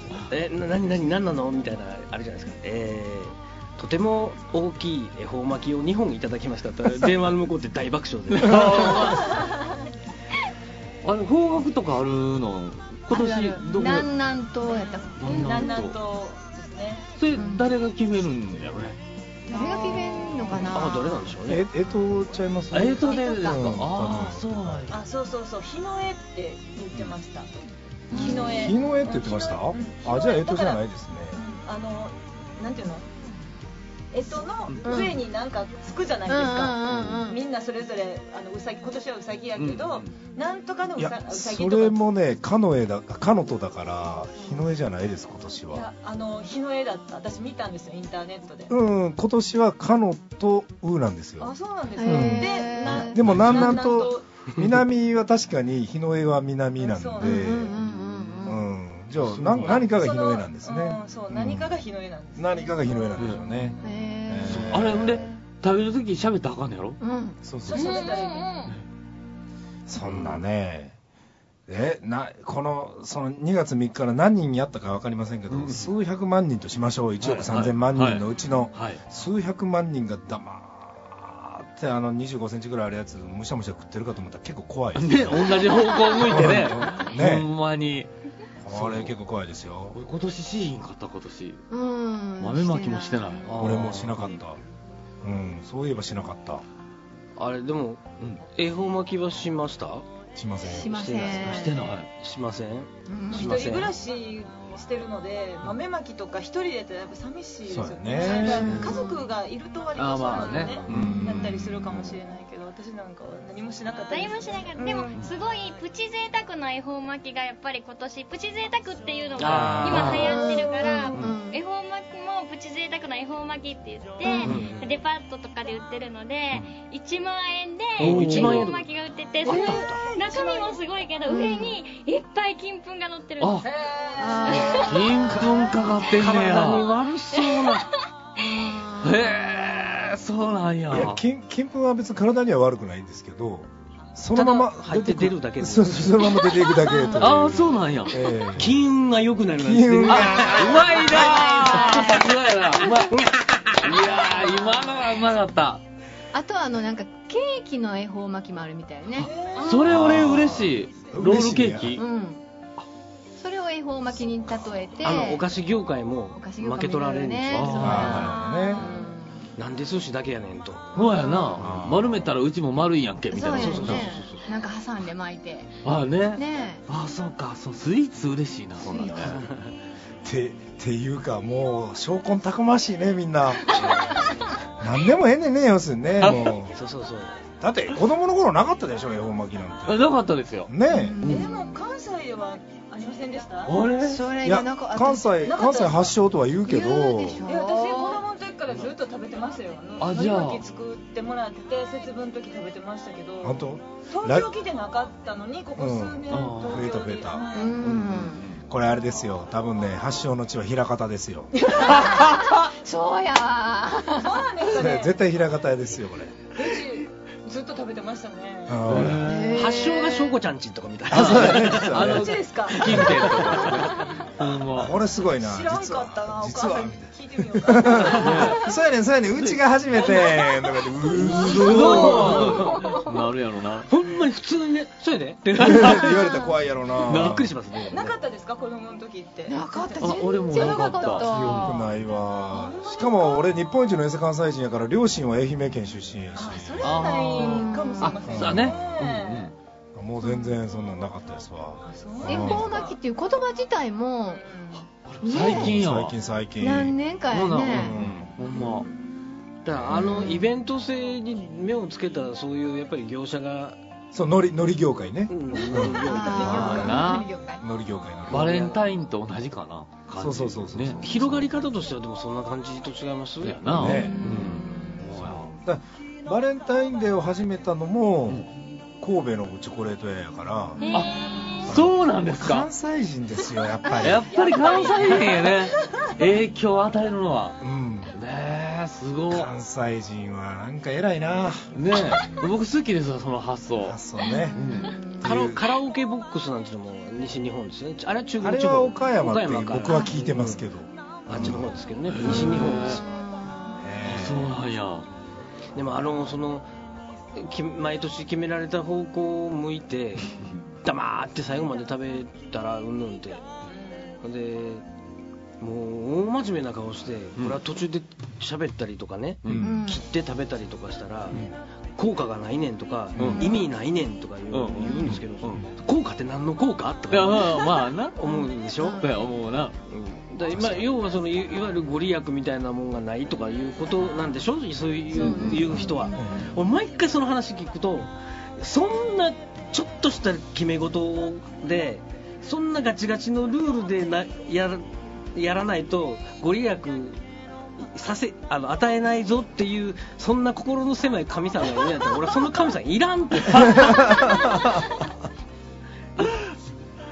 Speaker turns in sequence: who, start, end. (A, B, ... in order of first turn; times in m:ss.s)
0:00.3-0:09.2 A
0:08.3-0:09.4 B
0:11.0-0:14.1 B
0:13.1-0:15.8 C
0:14.8-0:17.1 D
0:15.2-0:16.0 B
0:17.2-0:19.0 B
0:17.3-0:17.7 C
0:19.5-0:21.3 C
0:19.5-0:20.4 D
0:20.4-0:20.7 B
0:20.7-0:21.6 A
0:21.5-0:24.9 E
0:22.7-0:25.0 B
0:23.1-0:23.6 C
0:24.9-0:27.5 D
0:28.1-0:28.7 C
0:28.1-0:33.1 D
0:28.1-0:31.4 E
0:34.1-0:42.0 D
0:34.8-0:35.2 C
0:36.3-0:37.4 C
0:39.6-0:40.1 B
0:41.0-0:45.8 E
0:45.7-0:48.7 D
0:48.7-0:57.8 E
0:51.4-0:54.2 D
0:52.0-0:53.7 C
0:56.8-0:57.7 D
0:57.2-0:58.6 C
0:58.4-1:01.7 E
0:59.4-0:59.8 B
0:59.6-1:02.7 D
1:02.4-1:05.2 E
1:03.8-1:05.4 C
1:04.5-1:07.0 B
1:07.0-1:07.4 C
1:07.4-1:08.0 E
1:07.6-1:08.6 D
1:07.7-1:08.7 F
1:09.9-1:11.0 E
1:10.0-1:10.4 B
1:11.7-1:27.5 E
1:15.5-1:15.9 B
1:17.2-1:19.0 B
1:25.0-1:28.1 B
1:28.6-1:30.0 E
1:28.7-1:29.1 B
1:29.9-1:31.6 B
1:31.7-1:33.5 C
1:32.4-1:34.3 B
1:33.5-1:34.1 A
1:33.6-1:34.6 E
1:35.2-1:36.6 E
1:37.4-1:40.0 A
1:40.4-1:41.6 E
1:40.6-1:41.8 C
1:40.9-1:43.9 A
1:41.5-1:42.1 B
1:43.1-1:43.7 C
1:43.3-1:55.1 D
1:47.7-1:48.9 E
1:48.2-1:48.9 B
1:50.0-1:51.1 B
1:50.0-1:50.7 A
1:50.9-1:52.2 E
1:50.9-1:51.4 C
1:54.1-2:13.7 F
1:59.4-2:00.2 A
1:59.5-2:00.4 B
2:00.1-2:01.6 C
2:04.2-2:04.5 C
2:04.4-2:04.9 A
2:08.0-2:08.8 A
2:08.0-2:08.8 B
2:09.5-2:09.8 B
2:09.5-2:10.0 A
2:09.5-2:10.8 D
2:11.3-2:11.8 C
2:13.4-2:13.7 B
2:13.6-2:14.8 D
2:14.2-2:15.6 C
2:14.5-2:15.2 F
2:14.7-2:16.9 B
2:16.0-2:17.9 A
2:17.4-2:17.8 F
2:18.4-2:19.4 C
2:19.0-2:21.2 B
2:20.9-2:28.8 E
2:24.3-2:26.2 A
2:26.7-2:27.5 C
2:27.2-2:28.2 B
2:28.6-2:30.9 A
2:29.6-2:31.5 E
2:30.1-2:33.2 B
2:31.1-2:32.3 C
2:33.1-2:33.8 A
2:33.8-2:35.8 B
2:34.4-2:34.8 C
2:36.3-2:39.3 C
2:39.2-2:42.0 B
2:39.2-2:39.9 D
2:39.8-2:42.0 E
2:42.0-2:42.4 C
2:43.4-2:45.4 C
2:45.0-2:48.2 A
2:46.4-2:49.5 C
2:47.5-2:48.3 B
2:47.8-2:48.8 E
2:49.6-2:50.9 A
2:51.0-2:54.1 B
2:51.0-2:51.6 C
2:51.6-2:52.3 E
2:53.3-2:55.7 C
2:53.6-2:54.4 A
2:55.8-2:59.4 B
2:56.3-2:56.8 C
2:58.8-2:59.4 C
2:59.3-2:59.8 A
3:00.2-3:03.8 E
3:03.8-3:04.1 A
3:04.8-3:06.8 E
3:06.2-3:06.6 B
3:06.7-3:07.4 A
3:07.6-3:10.1 E
3:09.9-3:10.7 B
3:10.7-3:11.2 E
3:10.9-3:11.8 C
3:11.2-3:11.5 B
3:11.2-3:13.8 D
3:13.7-3:14.2 B
3:14.0-3:15.4 C
3:14.4-3:17.4 E
3:15.4-3:16.1 D
3:16.6-3:18.2 C
3:17.4-3:23.6 D
3:20.0-3:20.6 B
3:23.4-3:24.5 E
3:24.1-3:27.8 D
3:25.8-3:32.0 E
3:26.3-3:26.9 B
3:27.5-3:28.5 C
3:27.8-3:28.6 B
3:31.6-3:34.4 C
3:34.2-3:35.1 D
3:34.7-3:36.4 E
3:36.5-3:38.9 D
3:38.7-3:39.4 E
3:38.9-3:39.6 B
3:39.2-3:40.4 C
3:39.5-3:41.9 A
3:41.1-3:42.3 E
3:41.1-3:44.9 B
3:41.9-3:43.0 D
3:42.9-3:43.9 A
3:44.7-3:52.5 E
3:45.4-3:48.8 D
3:48.2-3:48.6 B
3:51.2-3:53.9 B
3:51.4-3:53.0 A
3:53.9-3:56.2 A
3:55.6-3:57.5 E
3:56.1-3:56.6 C
3:57.1-3:57.5 B
3:57.1-3:58.2 A
3:57.9-4:01.5 D
3:59.5-4:01.9 C
4:00.0-4:01.8 B
4:01.3-4:07.1 E
4:02.5-4:03.4 D
4:06.4-4:09.5 D
4:06.8-4:09.5 B
4:07.3-4:08.1 C
4:08.3-4:08.8 E
4:09.9-4:12.7 E
4:11.8-4:13.0 D
4:12.2-4:14.5 C
4:14.4-4:14.8 D
4:14.9-4:16.2 B
4:15.2-4:15.8 C
4:15.3-4:17.0 E
4:16.6-4:18.0 C
4:17.3-4:18.9 B
4:17.7-4:18.3 E
4:18.5-4:18.9 C
4:19.6-4:23.8 A
4:19.8-4:20.4 E
4:24.1-4:26.9 E
4:25.3-4:27.0 A
4:25.6-4:27.6 C
4:26.4-4:27.3 B
4:26.6-4:27.0 D
4:27.6-4:28.6 E
4:28.3-4:28.8 A
4:28.3-4:31.0 B
4:30.2-4:31.5 E
4:31.0-4:33.6 A
4:33.4-4:35.5 B
4:33.7-4:34.4 E
4:33.8-4:35.1 C
4:35.0-4:38.5 E
4:39.0-4:40.8 E
4:40.8-4:41.5 F
4:40.9-4:42.7 B
4:41.6-4:44.2 E
4:44.0-4:47.6 B
4:44.3-4:46.2 D
4:47.6-4:48.1 E
4:48.1-4:49.5 B
4:49.3-4:51.7 E
4:51.7-4:54.0 B
4:53.8-4:54.6 E
4:54.2-4:55.3 C
4:54.5-4:54.9 B
4:55.2-4:55.7 E
4:55.2-5:00.6 A
4:58.4-5:01.7 E
4:59.9-5:00.2 C
5:01.2-5:03.0 A
5:02.1-5:03.0 B
5:02.8-5:03.9 C
5:03.8-5:04.6 E
5:04.0-5:05.1 B
5:05.8-5:06.7 A
5:07.3-5:13.4 A
5:13.7-5:14.2 D
5:14.2-5:14.9 A
5:15.6-5:21.4 A
5:19.4-5:19.8 B
5:19.5-5:19.8 E
5:19.6-5:20.0 C
5:22.0-5:29.0 A
5:23.2-5:23.4 E
5:23.2-5:23.5 B
5:24.5-5:25.6 B
5:27.1-5:28.2 B
5:28.2-5:29.1 C
5:28.8-5:29.8 B
5:29.9-5:47.2 A
5:35.1-5:36.4 C
5:35.2-5:35.7 B
5:36.1-5:36.5 E
5:47.8-5:54.1 A
5:53.6-5:54.8 E